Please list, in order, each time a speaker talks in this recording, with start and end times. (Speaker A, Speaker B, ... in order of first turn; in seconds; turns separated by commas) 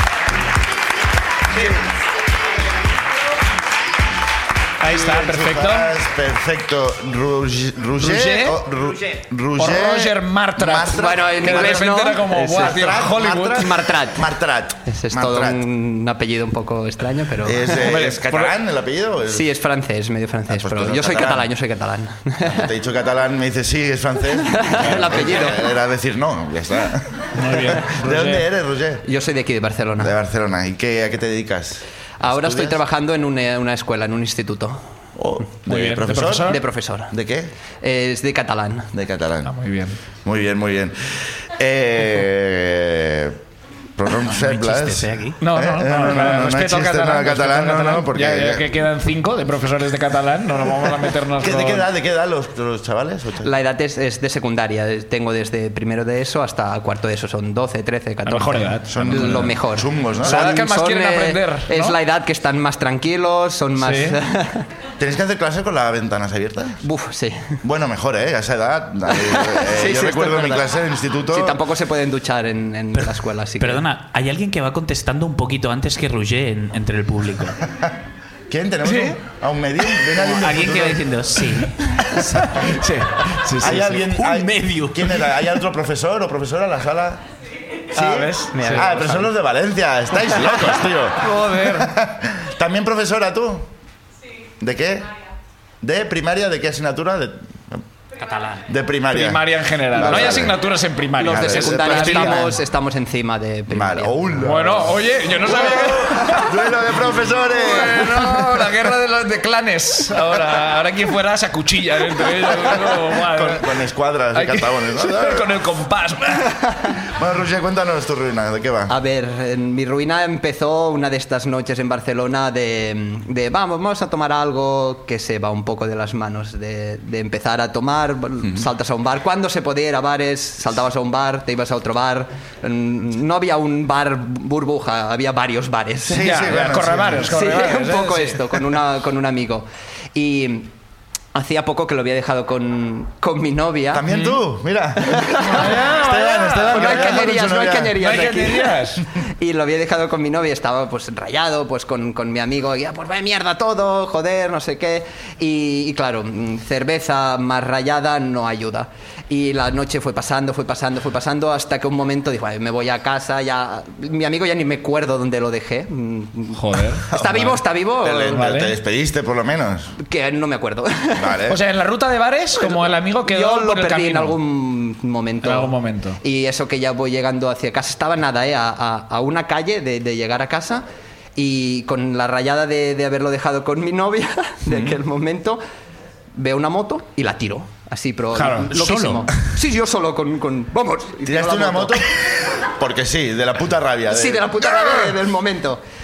Speaker A: 4.8-5.9, Speaker B: 4.8-15.6, Speaker A: 8.0-8.6, Speaker A: 9.6-13.8, Speaker C: 10.9-14.3, Speaker C: 14.9-18.0, Speaker B: 17.4-19.5, Speaker A: 17.7-18.5, Speaker C: 19.3-22.7, Speaker B: 20.5-21.5, Speaker B: 22.4-29.1, Speaker C: 24.4-25.6, Speaker A: 27.4-28.4, Speaker C: 29.1-30.1, Speaker B: 30.0-32.8, Speaker C: 32.2-34.8, Speaker B: 35.2-37.5, Speaker A: 35.7-36.6, Speaker C: 36.5-37.1, Speaker C: 37.8-38.9, Speaker B: 38.9-39.5, Speaker A: 39.5-40.0, Speaker B: 40.2-43.4, Speaker B: 44.0-48.7, Speaker D: 44.3-45.4, Speaker A: 45.4-51.9, Speaker B: 51.4-53.5, Speaker C: 53.4-64.7, Speaker A: 58.2-59.5, Speaker B: 58.9-60.4, Speaker A: 60.2-62.0, Speaker A: 63.8-64.2, Speaker B: 65.0-66.8, Speaker C: 66.8-67.6, Speaker B: 67.6-71.6, Speaker C: 69.1-70.7, Speaker C: 71.3-73.8, Speaker D: 73.0-77.6, Speaker B: 78.5-81.0, Speaker A: 78.8-79.2, Speaker D: 80.2-82.6, Speaker A: 82.4-84.0, Speaker B: 83.6-87.2, Speaker D: 84.0-85.3, Speaker B: 87.9-93.7, Speaker A: 87.9-88.9, Speaker D: 88.5-89.3, Speaker A: 91.2-92.0, Speaker B: 94.6-95.1, Speaker B: 95.8-97.8, Speaker D: 98.2-98.7, Speaker B: 98.7-100.7, Speaker A: 99.1-102.5, Speaker C: 101.2-104.2, Speaker B: 101.2-102.6, Speaker B: 103.7-108.7, Speaker A: 104.4-106.6, Speaker A: 107.5-113.7, Speaker B: 113.2-115.5, Speaker A: 114.3-116.8, Speaker B: 117.0-118.9, Speaker C: 118.9-136.3, Speaker B: 136.1-137.4, Speaker A: 136.2-138.6, Speaker C: 137.3-140.7, Speaker C: 141.3-144.0, Speaker B: 143.9-148.1, Speaker A: 144.1-144.4, Speaker C: 145.0-145.8, Speaker A: 145.4-147.3, Speaker C: 146.7-168.5, Speaker A: 148.0-149.0, Speaker A: 166.5-167.1, Speaker B: 167.1-170.0, Speaker A: 168.3-168.8, Speaker C: 170.0-171.4, Speaker B: 171.1-171.6, Speaker A: 171.5-174.4, Speaker C: 172.6-180.8, Speaker A: 175.4-176.2, Speaker C: 181.4-185.6, Speaker C: 186.4-192.0, Speaker A: 188.3-188.9, Speaker D: 188.7-189.3, Speaker B: 191.2-195.1, Speaker C: 194.1-195.8